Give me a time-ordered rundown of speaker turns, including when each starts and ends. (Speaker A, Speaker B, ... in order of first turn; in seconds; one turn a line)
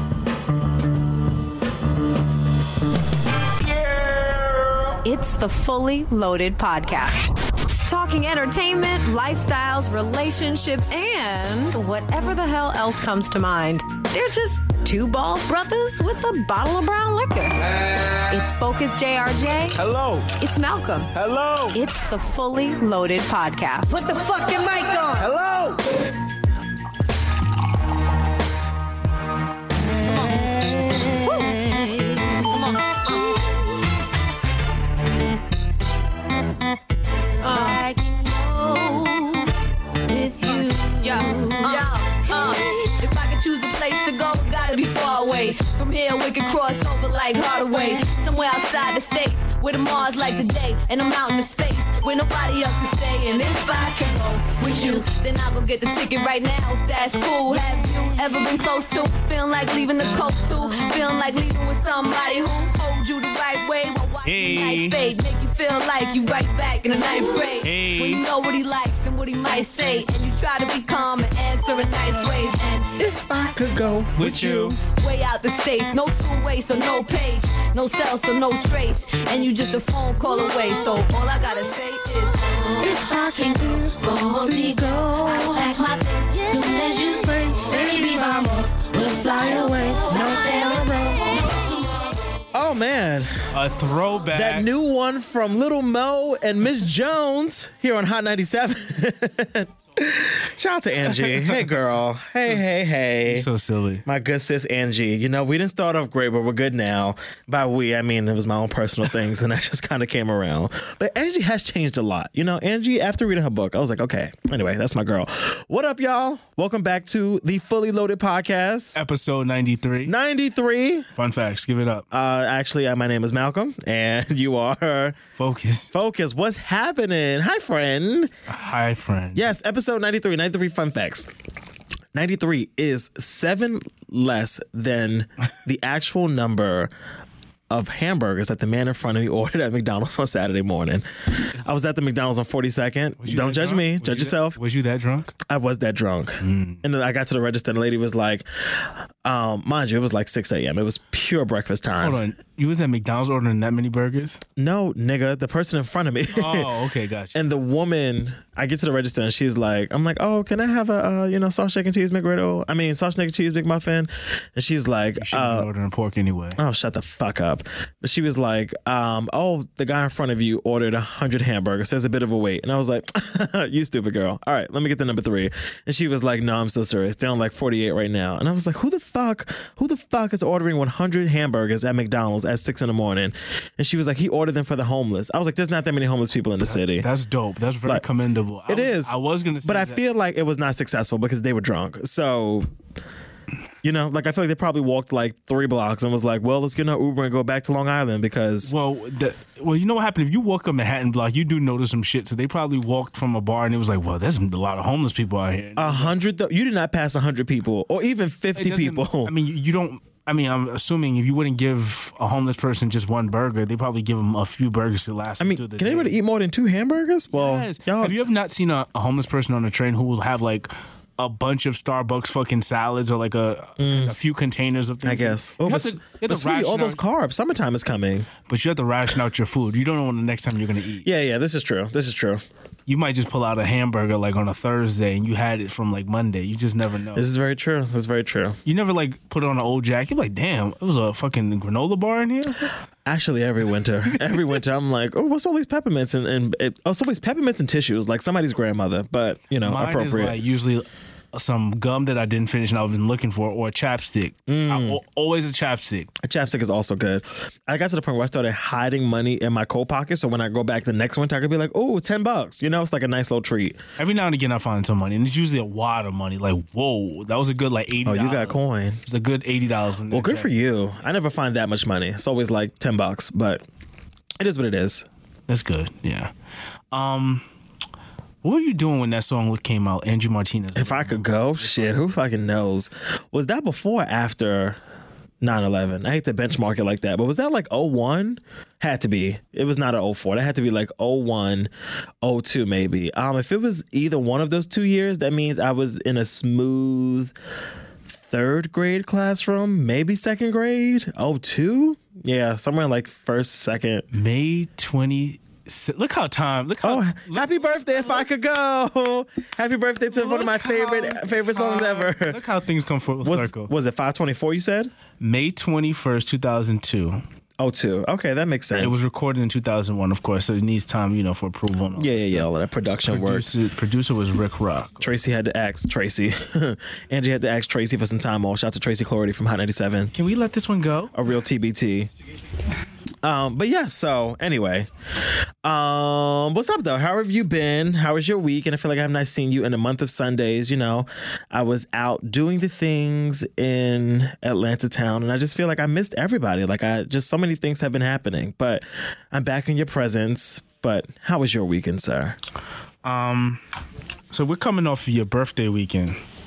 Speaker A: 5.0-7.2
Speaker A: 7.8-17.6
Speaker A: 18.3-19.8
Speaker B: 19.8-20.4
Speaker A: 20.4-21.1
Speaker B: 21.1-21.8
Speaker A: 21.7-24.0
Speaker C: 23.9-25.2
Speaker B: 25.2-25.8
Speaker D: 31.2-32.5
Speaker C: 37.4-37.8
Speaker D: 37.4-39.5
Speaker D: 40.1-42.8
Speaker C: 41.0-73.0
Speaker E: 64.2-65.0
Speaker E: 67.6-68.2
Speaker F: 73.0-74.8
Speaker E: 74.2-74.8
Speaker C: 74.8-82.6
Speaker D: 82.8-92.1
Speaker F: 92.5-93.3
Speaker E: 93.5-94.7
Speaker F: 94.3-103.5
Speaker E: 101.1-101.7
Speaker E: 102.5-104.0
Speaker F: 104.1-119.0
Speaker E: 119.0-120.1
Speaker F: 120.0-121.1
Speaker E: 121.1-122.1
Speaker F: 122.1-125.2
Speaker E: 125.4-125.9
Speaker F: 125.9-128.3
Speaker E: 128.5-129.5
Speaker F: 129.3-131.3
Speaker F: 132.1-136.9
Speaker F: 137.7-144.6
Speaker E: 143.2-145.3
Speaker F: 145.4-152.2
Speaker E: 146.4-146.8
Speaker E: 152.0-154.4
Speaker F: 154.6-156.7
Speaker E: 156.3-157.4
Speaker F: 157.3-165.7
Speaker E: 165.2-166.6
Speaker F: 166.6-187.1
Speaker E: 186.7-190.0
Speaker F: 188.7-192.7
Speaker F: 193.8-198.7
Speaker E: 198.6-206.2
Speaker F: 205.8-209.3
Speaker E: 208.6-216.2
Speaker F: 215.4-218.2
Speaker E: 217.3-227.0
Speaker F: 223.8-224.2
Speaker F: 225.0-228.3
Speaker E: 228.5-231.1
Speaker F: 231.0-232.4
Speaker E: 232.9-237.3
Speaker F: 237.2-238.6
Speaker E: 238.7-242.7
Speaker F: 243.1-250.4
Speaker E: 249.6-256.1
Speaker F: 254.5-255.0
Speaker F: 256.2-263.8
Speaker E: 264.0-270.5
Speaker F: 268.0-269.0
Speaker F: 270.1-273.6
Speaker F: 274.4-275.1
Speaker E: 275.5-276.3
Speaker E: 276.9-277.4
Speaker E: 278.4-282.1
Speaker F: 280.8-284.8
Speaker F: 285.4-291.7
Speaker F: 292.2-297.3
Speaker F: 298.1-304.1
Speaker E: 304.1-308.2
Speaker F: 306.8-312.4
Speaker E: 310.1-313.7
Speaker F: 313.2-314.9
Speaker E: 315.2-317.2
Speaker F: 317.6-319.0
Speaker E: 318.8-322.5
Speaker F: 322.0-323.5
Speaker E: 323.1-325.0
Speaker F: 325.0-330.1
Speaker E: 330.1-331.1
Speaker F: 331.1-332.1
Speaker F: 333.2-334.9
Speaker F: 335.6-352.4
Speaker E: 353.0-353.6
Speaker E: 354.3-356.2